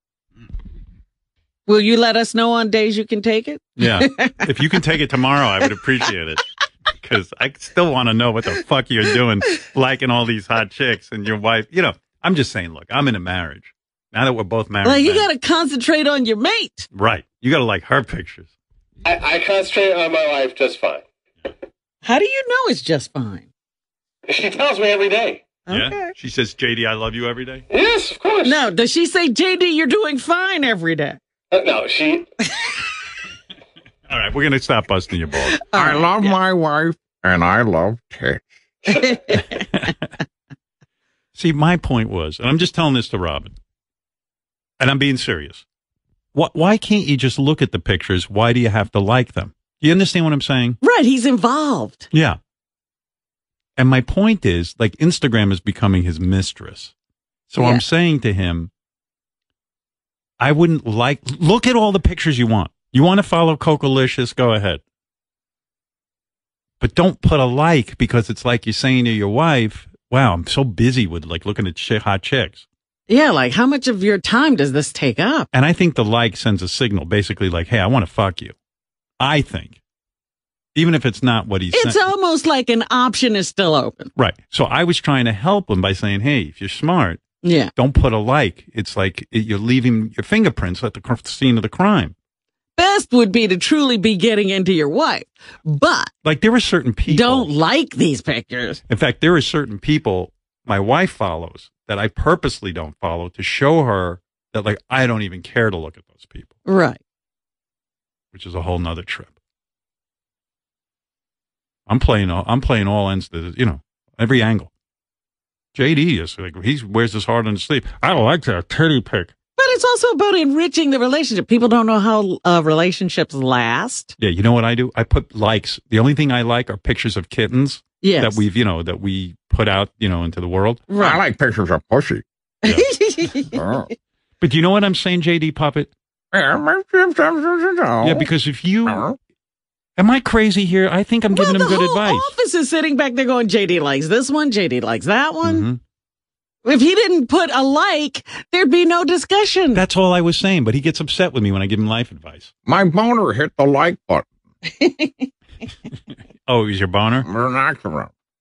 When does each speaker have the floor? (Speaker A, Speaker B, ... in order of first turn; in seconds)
Speaker A: 1.7-4.7, 14.8-16.9, 22.0-23.5, 25.7-26.1, 28.4-31.2, 35.6-36.3, 38.9-39.6, 50.8-52.1, 57.6-57.8, 73.1-75.5, 81.7-84.1, 87.4-87.7, 92.8-96.1, 97.1-98.8, 106.7-107.0, 119.6-124.1, 128.0-128.4, 130.9-131.2, 132.7-133.6, 141.3-145.7, 146.7-149.8, 154.7-155.3
Speaker B: 3.8-6.4, 7.0-15.3, 16.9-18.5, 25.7-27.7, 34.1-35.6, 39.4-40.1, 41.4-43.5, 44.8-45.6, 46.3-50.8, 52.1-52.4, 53.8-56.9, 57.5-58.7, 60.4-64.8, 66.8-72.7, 75.5-78.5, 79.2-79.8, 80.8-82.0, 84.2-92.1, 96.2-97.5, 98.9-106.5, 108.3-109.3, 111.9-114.7, 115.8-119.3, 124.2-130.8, 134.4-135.9, 138.0-139.1, 140.0-142.3, 145.4-145.8, 149.7-152.5, 156.5-157.3
Speaker C: 19.1-21.0, 24.3-25.6, 27.7-28.6, 31.5-32.3
Speaker D: 35.7-38.5, 131.0-132.2, 133.5-133.9, 136.3-138.3, 138.9-139.2, 152.7-154.3, 157.2-158.1